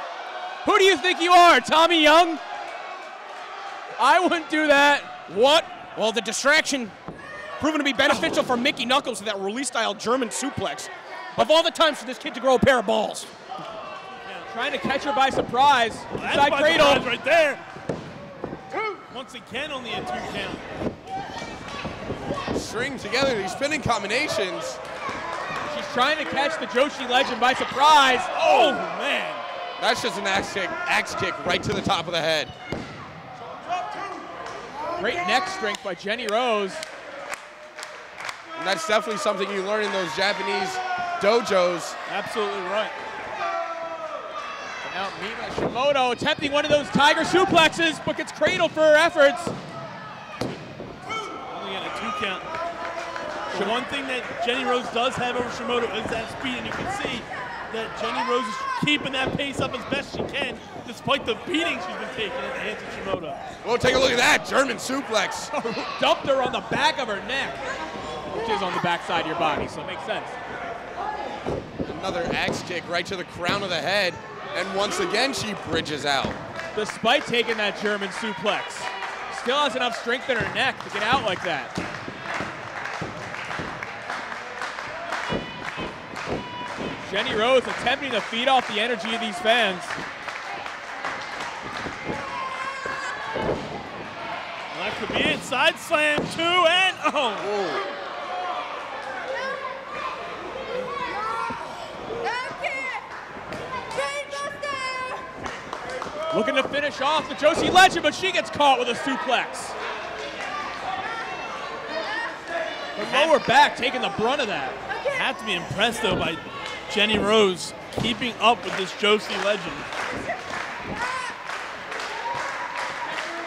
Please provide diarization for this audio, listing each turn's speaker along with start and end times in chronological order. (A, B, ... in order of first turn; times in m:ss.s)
0:00.6-0:02.4 A
0:04.0-0:05.7 A
0:05.7-0:07.0 B
0:07.6-0:13.3 B
0:14.2-0:14.5 C
0:14.5-0:17.1 A
0:16.2-0:17.6 C
0:18.7-0:20.6 C
0:22.5-0:24.8 D
0:25.7-0:28.8 A
0:28.3-0:29.4 C
0:29.8-0:32.5 D
0:35.0-0:36.8 A
0:38.6-0:42.0 D
0:42.1-0:42.9 C
0:44.8-0:49.5 A
0:51.5-0:52.5 C
0:53.5-1:03.4 C
0:53.5-0:53.8 A
1:03.6-1:05.9 D
1:05.6-1:07.6 A
1:08.3-1:10.3 A
1:11.9-1:16.4 D
1:16.8-1:21.7 A
1:27.0-1:30.0 A
1:34.7-1:37.5 C
1:46.3-1:49.7 A
1:53.0-1:54.8 A
1:53.0-1:53.4 C
1:55.1-1:59.9 C